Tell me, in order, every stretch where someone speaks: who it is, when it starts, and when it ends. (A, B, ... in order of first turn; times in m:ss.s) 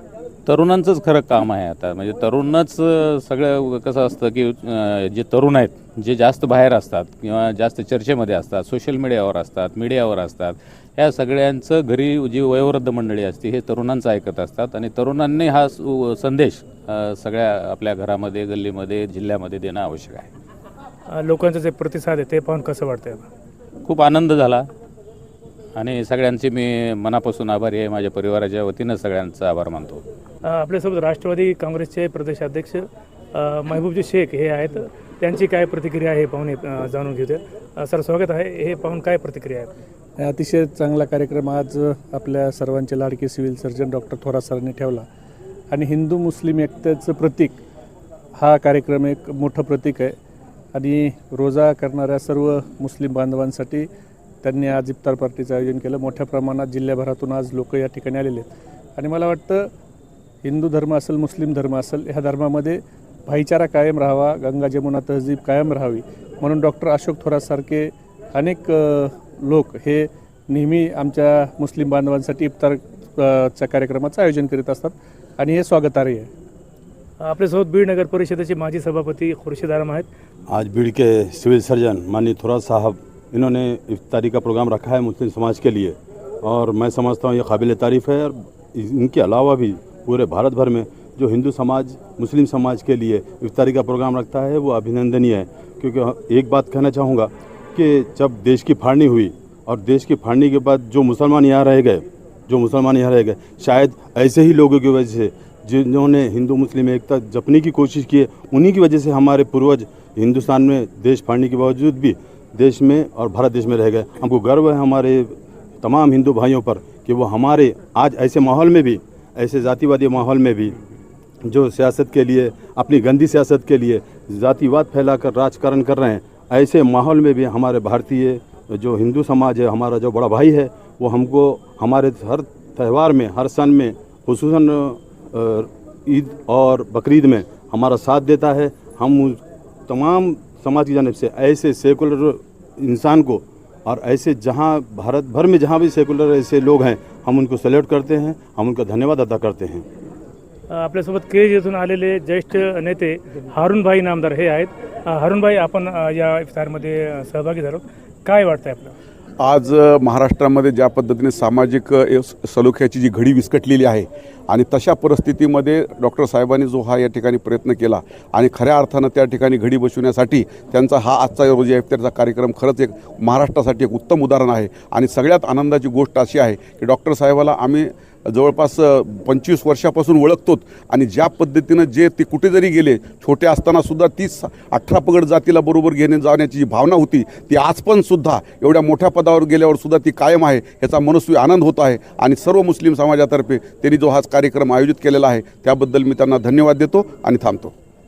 0:00.4-0:20.3 A
0:21.1-0:23.2 B
0:23.8-0:24.7 A
0:25.7-0:30.0 A
0:30.4-0:39.7 B
0:40.2-0:45.1 C
0:45.7-0:47.6 C
0:48.3-0:50.2 C
0:50.7-0:53.9 C
0:54.4-0:59.7 C
1:00.4-1:16.3 C
1:17.2-1:20.1 B
1:20.5-2:00.7 D
2:01.4-2:29.8 D
2:30.7-2:38.9 B
2:39.4-3:17.7 E